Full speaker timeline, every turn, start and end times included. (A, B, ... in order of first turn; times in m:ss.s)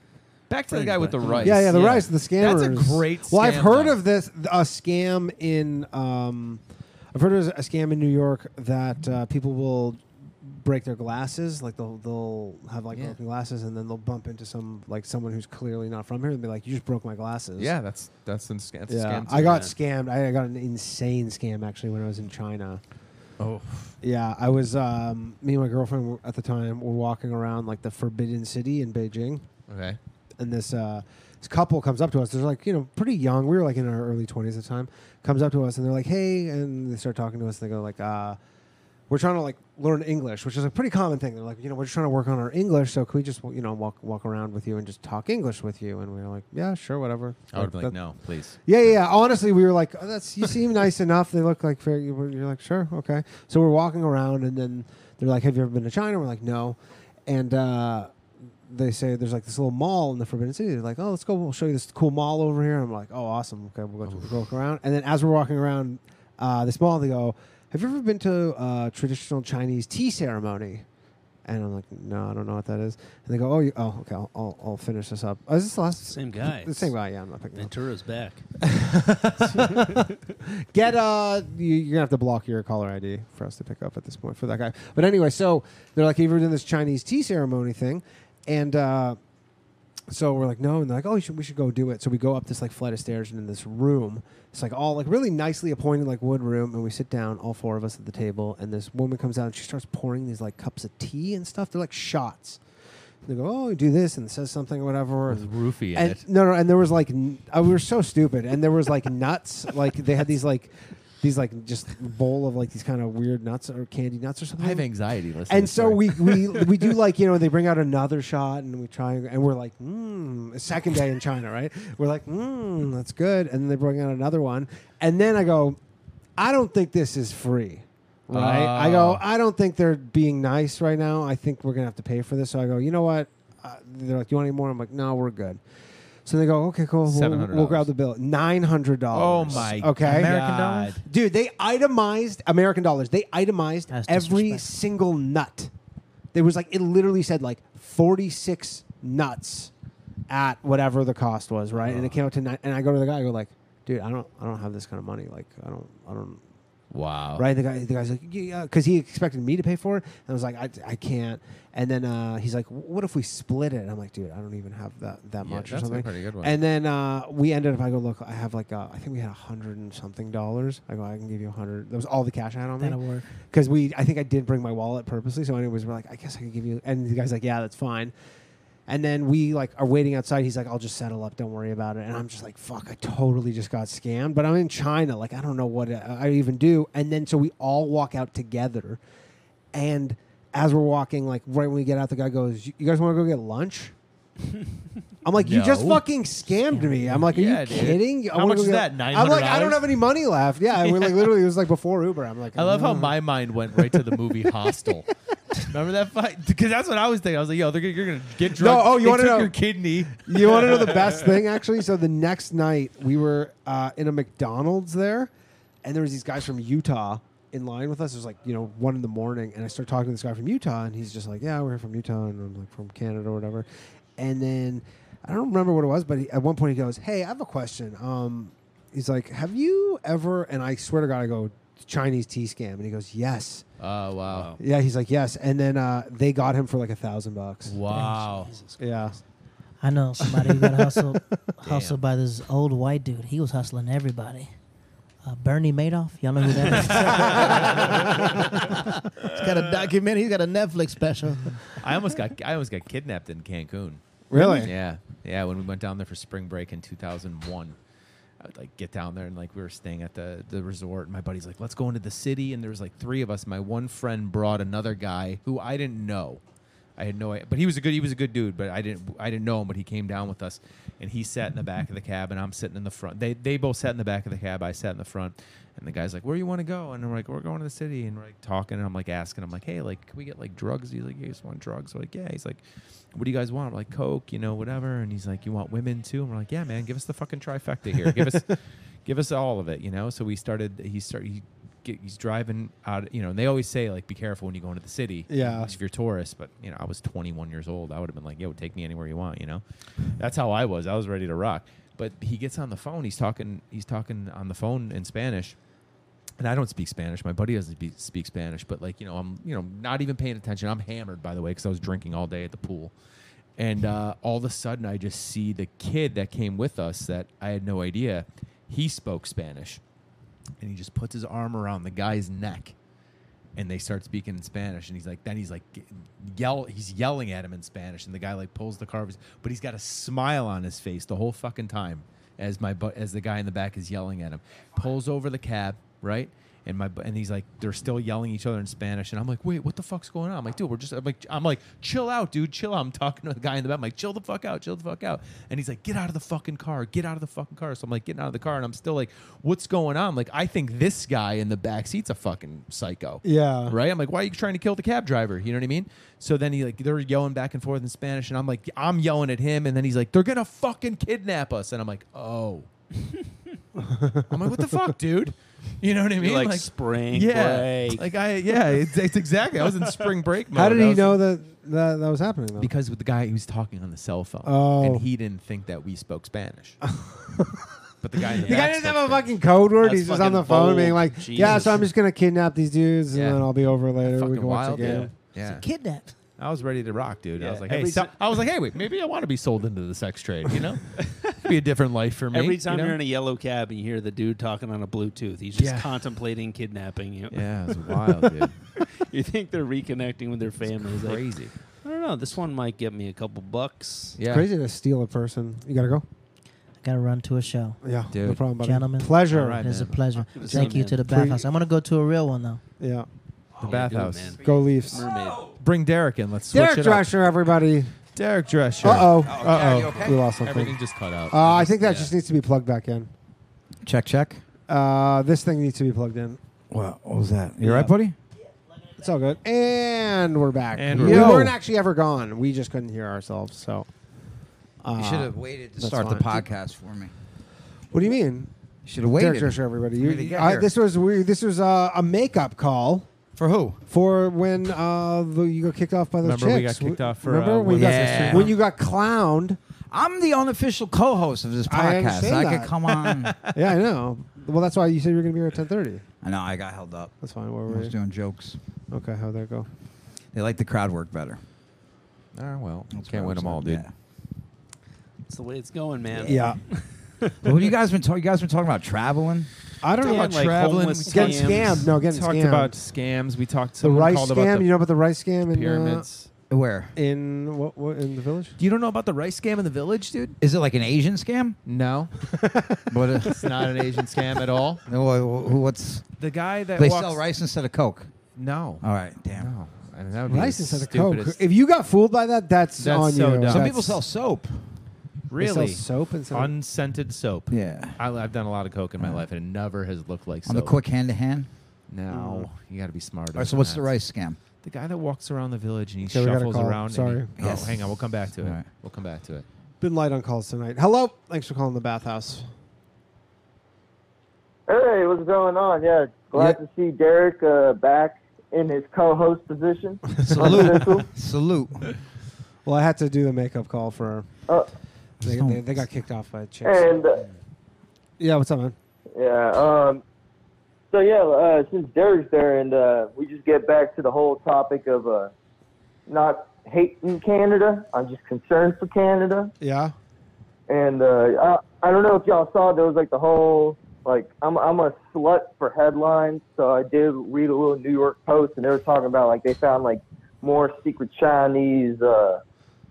0:00.5-0:04.0 A
0:00.7-0:02.1 B
0:01.4-0:17.7 C
0:12.9-0:13.2 A
0:17.6-0:19.7 A
0:18.9-0:22.8 C
0:23.4-0:23.9 A
0:24.0-0:29.5 C
0:29.7-0:30.0 A
0:30.4-0:38.4 C
0:39.1-0:48.0 C
0:47.5-0:48.6 A
0:48.6-0:58.1 C
0:58.7-1:10.8 C
1:11.4-1:17.7 C
1:16.1-1:16.9 B
1:17.5-1:18.4 B
1:18.6-1:29.2 C
1:30.1-1:42.6 C
1:43.2-1:54.9 C
1:45.3-1:46.2 A
1:54.6-1:56.6 A
1:55.5-2:05.8 C
2:06.4-2:15.6 C
2:08.3-2:09.2 A
2:16.2-2:20.3 C
2:17.0-2:17.9 A
2:19.1-2:21.0 A
2:20.0-2:20.6 D
2:20.3-2:20.9 E
2:21.0-2:25.7 C
2:23.9-2:24.7 E
2:26.3-2:29.7 C
2:30.3-2:36.4 C
2:36.9-2:37.4 A
2:37.4-2:58.1 C
2:45.4-2:46.6 A
2:52.8-2:53.3 E
2:58.9-3:09.0 C
3:09.7-3:13.9 C
3:15.2-3:23.2 C
3:15.4-3:16.0 A
3:16.7-3:17.2 E
3:17.3-3:19.9 A
3:20.8-3:21.2 A
3:22.6-3:25.1 A
3:23.7-3:24.0 C
3:25.6-3:30.7 A
3:28.5-3:29.5 C
3:30.1-3:35.3 C
3:35.8-3:53.6 C
3:53.8-3:54.5 A
3:54.2-3:54.6 B
3:54.6-3:57.8 C
3:57.7-3:58.5 A
3:57.9-3:59.1 B
3:58.8-3:59.2 C
3:59.8-4:04.5 E
4:01.6-4:02.0 A
4:05.2-4:11.6 E
4:07.0-4:07.6 A
4:11.8-4:17.8 A
4:14.3-4:14.7 C
4:18.4-4:26.4 A
4:27.0-4:42.6 A
4:43.1-4:59.6 A
4:55.3-4:55.7 C
5:00.2-5:05.6 A
5:06.4-5:12.9 A
5:13.6-5:19.8 A
5:20.6-5:22.7 A
5:23.6-6:02.7 A
5:53.2-5:53.7 C
6:03.8-6:04.3 C
6:04.3-6:11.2 A
6:06.2-6:08.8 B
6:10.5-6:12.7 C
6:12.6-6:16.8 A
6:14.4-6:15.0 C
6:16.8-6:17.7 C
6:18.0-6:19.3 A
6:18.3-6:25.1 C
6:18.3-6:18.7 B
6:19.8-6:21.9 B
6:23.1-6:25.6 A
6:24.8-6:25.1 B
6:25.4-6:26.1 E
6:26.4-6:33.0 A
6:27.4-6:28.2 B
6:31.0-6:31.4 B
6:32.3-6:44.2 B
6:35.6-6:35.9 A
6:37.3-6:38.6 A
6:40.9-6:41.5 A
6:44.2-6:44.4 A
6:44.3-6:46.0 C
6:46.8-6:47.8 E
6:47.8-6:49.6 C
6:48.1-6:48.4 A
6:48.4-6:52.6 E
6:49.3-6:50.2 A
6:50.3-6:51.0 B
6:50.4-6:51.4 C
6:52.8-6:53.1 C
6:53.6-6:54.4 A
6:53.6-6:55.5 B
6:54.4-6:55.1 C
6:55.5-6:57.1 A
6:56.5-6:57.9 C
6:58.2-7:02.1 A
6:58.8-7:00.8 C
6:58.8-7:00.2 D
7:01.3-7:03.1 C
7:03.8-7:04.4 D
7:04.7-7:06.4 C
7:06.7-7:08.2 D
7:07.6-7:07.9 C
7:09.0-7:13.9 C
7:10.7-7:11.5 A
7:10.9-7:11.5 D
7:14.8-7:16.4 C
7:14.9-7:17.1 D
7:17.9-7:18.5 C
7:18.8-7:20.7 D
7:19.1-7:23.1 C
7:23.4-7:23.8 D
7:23.9-7:29.6 C
7:26.2-7:28.5 A
7:27.7-7:28.5 D
7:29.9-7:33.4 D
7:31.7-7:32.7 C
7:33.4-7:36.0 C
7:36.2-7:37.1 D
7:37.2-7:37.9 C
7:37.7-7:38.6 D
7:38.9-7:39.7 C
7:40.3-7:41.4 D
7:42.3-7:43.9 A
7:42.9-7:43.9 D
7:45.3-7:47.3 B
7:46.2-7:46.6 C
7:47.4-7:49.5 D
7:49.8-7:52.7 C
7:50.0-7:51.8 B
7:50.0-7:54.8 A
7:53.8-7:56.0 C
7:55.4-7:56.3 A
7:56.5-7:56.9 D
7:57.0-7:58.6 C
7:58.6-8:00.4 A
8:00.4-8:01.6 D
8:01.6-8:02.1 A
8:02.3-8:02.8 C
8:02.9-8:03.6 D
8:03.3-8:04.8 A
8:04.9-8:06.1 D
8:06.2-8:07.2 A
8:06.8-8:08.1 D
8:08.3-8:11.4 A
8:08.8-8:09.5 D
8:10.3-8:14.0 C
8:12.8-8:13.8 A
8:13.5-8:14.6 D
8:15.3-8:20.8 A
8:15.4-8:16.5 C
8:17.5-8:18.0 D
8:19.0-8:19.2 D
8:20.4-8:21.5 D
8:21.9-8:23.9 A
8:22.1-8:22.5 C
8:23.3-8:24.4 D
8:24.6-8:29.4 A
8:26.0-8:27.3 C
8:27.4-8:28.7 D
8:29.8-8:32.5 C
8:34.7-8:41.1 F
8:36.3-8:36.6 C
8:40.2-8:41.9 D
8:42.6-8:44.3 C
8:45.2-8:45.8 D
8:45.2-8:47.0 C
8:46.6-8:47.2 F
8:48.2-8:48.8 C
8:49.2-8:50.0 F
8:50.9-8:55.3 F
8:56.1-8:59.5 F
8:59.6-8:59.9 C
9:00.7-9:12.4 F